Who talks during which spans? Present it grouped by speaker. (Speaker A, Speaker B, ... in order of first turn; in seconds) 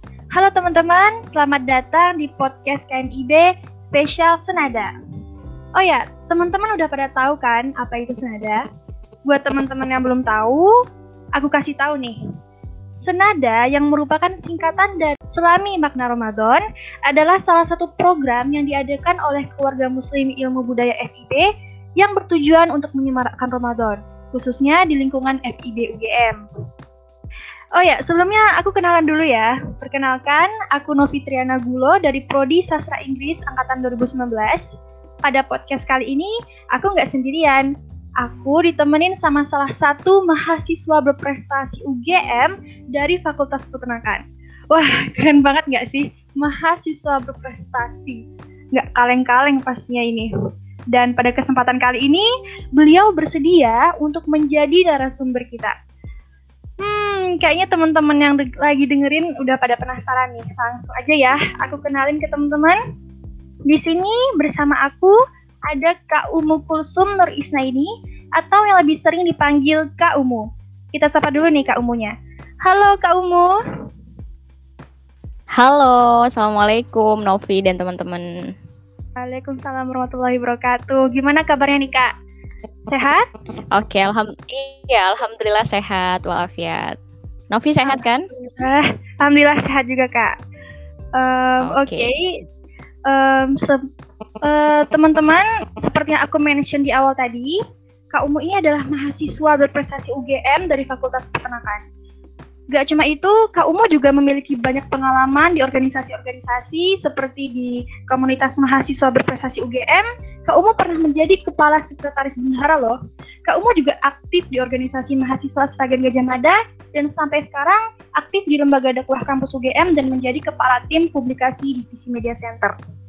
Speaker A: 0.3-4.9, 5.8-8.6, 9.3-10.7, 11.4-12.2, 13.0-21.5, 22.0-26.4, 27.8-37.7, 38.2-48.2, 48.7-50.3, 50.9-55.7, 56.8-62.8, 63.7-65.1, 65.7-72.1, 72.6-73.6, 79.2-82.1, 82.9-83.3, 87.8-90.3, 91.2-92.4, 93.1-93.8, 94.5-97.5, 98.1-101.8, 102.7-122.7
Speaker B: 75.6-78.2, 83.7-87.0, 87.5-88.3, 91.6-92.1